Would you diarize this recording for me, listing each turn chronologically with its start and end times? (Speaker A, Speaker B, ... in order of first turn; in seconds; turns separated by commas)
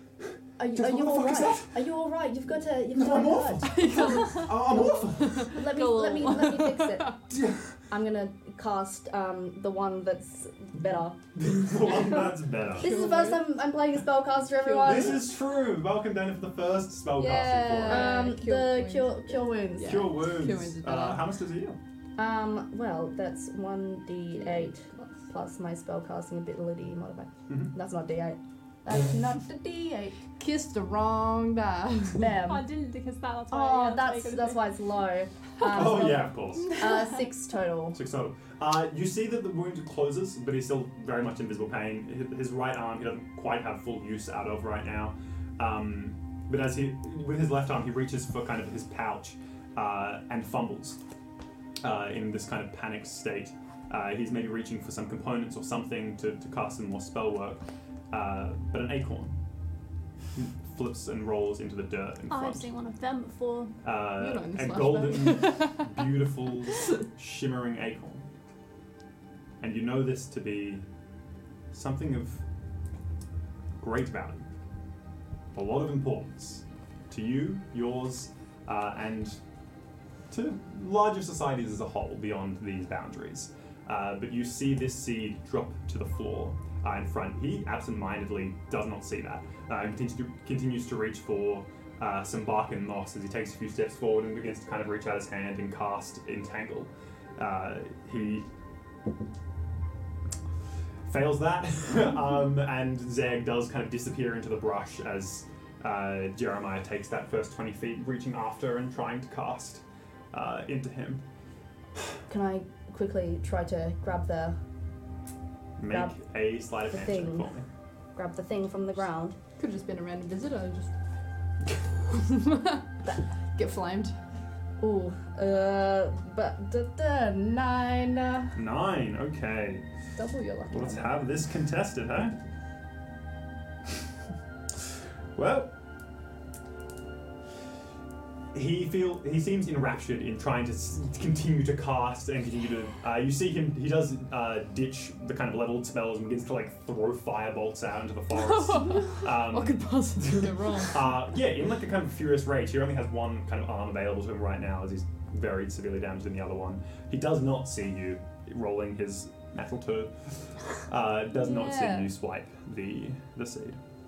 Speaker A: 0.6-7.2, Speaker B: 0.8-1.8, Speaker B: 2.9-5.5, Speaker C: 3.7-7.2, Speaker B: 7.3-7.8, Speaker A: 7.9-11.2, Speaker B: 11.3-12.9, Speaker C: 12.8-13.5, Speaker A: 12.8-15.2, Speaker C: 14.5-15.2, Speaker B: 14.8-18.3, Speaker C: 17.2-21.2, Speaker A: 17.9-20.1, Speaker B: 19.8-21.8, Speaker A: 22.2-30.2, Speaker C: 24.7-25.0, Speaker C: 30.4-32.3, Speaker A: 32.2-32.6, Speaker D: 32.5-34.6, Speaker A: 33.5-38.0, Speaker B: 35.7-36.8, Speaker B: 37.9-51.0, Speaker B: 51.8-59.4, Speaker B: 60.4-62.7, Speaker D: 62.3-63.8, Speaker B: 63.8-68.3, Speaker C: 64.2-65.9, Speaker B: 69.6-70.8, Speaker B: 71.7-72.4, Speaker B: 73.8-74.5, Speaker B: 75.5-79.4, Speaker B: 80.3-98.5, Speaker B: 101.1-111.2, Speaker A: 112.3-114.6, Speaker B: 115.8-117.7, Speaker A: 115.9-116.2, Speaker A: 116.9-117.5, Speaker A: 118.2-119.4, Speaker C: 119.6-120.9, Speaker C: 122.1-122.9, Speaker C: 123.5-124.2, Speaker A: 124.8-128.6, Speaker B: 128.6-129.8, Speaker A: 130.2-131.2, Speaker B: 130.7-132.4, Speaker B: 135.3-135.7, Speaker B: 138.5-163.8, Speaker C: 148.6-151.2